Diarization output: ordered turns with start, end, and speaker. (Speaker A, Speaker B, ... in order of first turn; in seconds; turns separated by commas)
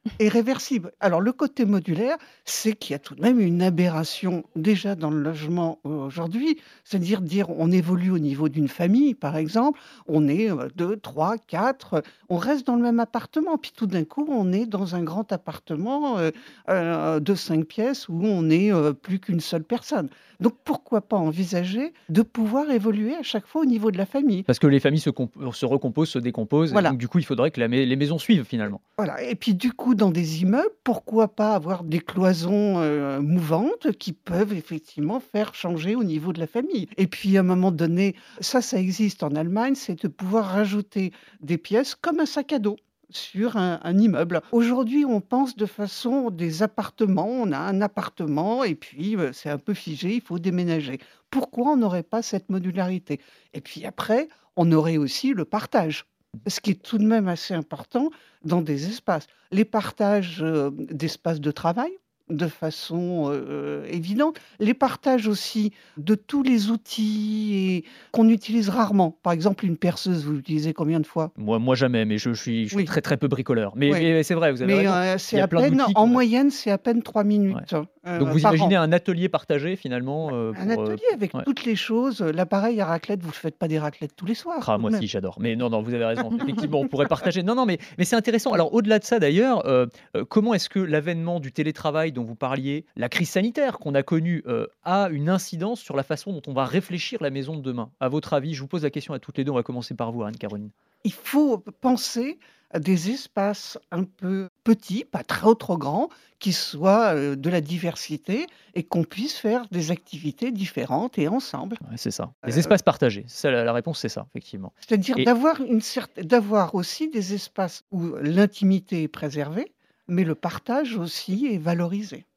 Speaker A: 0.2-24.5, Speaker B: 24.5-28.8, Speaker A: 29.0-71.3, Speaker B: 71.4-76.2, Speaker A: 74.6-78.8, Speaker B: 78.2-81.5, Speaker A: 80.5-85.0, Speaker B: 84.6-100.7, Speaker A: 101.0-111.8, Speaker B: 111.8-115.3, Speaker A: 112.5-112.7, Speaker A: 114.8-122.2